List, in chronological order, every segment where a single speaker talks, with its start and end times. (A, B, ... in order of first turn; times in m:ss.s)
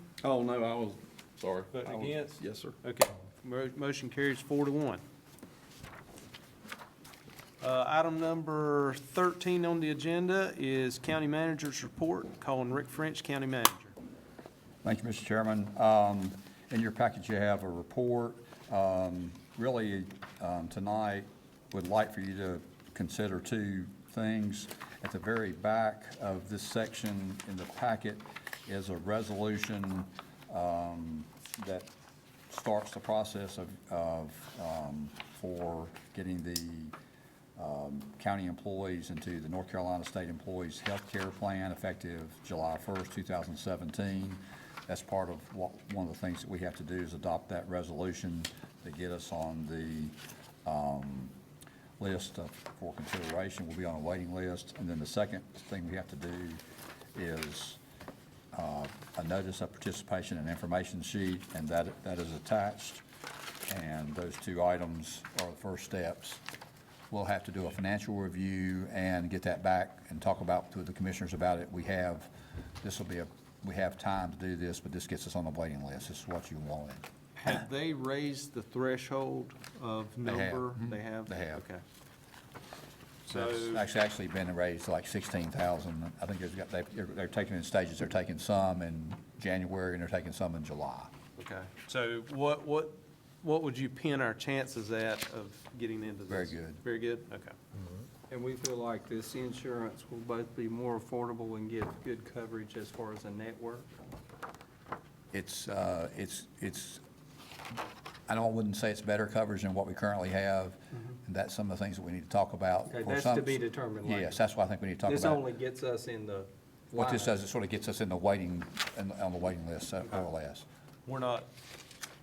0:00.2-0:02.8 A
0:01.7-0:05.0 B
0:07.6-0:13.9 B
0:14.8-0:31.9 C
0:32.5-0:36.9 C
0:37.6-0:51.3 C
0:52.0-0:56.6 C
0:57.1-0:57.8 C
0:58.5-1:03.0 C
1:03.7-1:06.4 C
1:07.1-1:12.3 C
1:12.8-1:17.5 C
1:17.4-1:21.8 B
1:20.2-1:21.6 C
1:23.2-1:23.8 B
1:23.3-1:31.1 C
1:31.4-1:37.5 B
1:36.3-1:36.8 C
1:38.3-1:43.9 D
1:45.3-1:47.0 C
1:48.3-1:55.4 C
1:52.9-1:54.4 D
1:55.0-1:57.4 D
1:56.9-2:00.6 C
2:01.1-2:01.5 B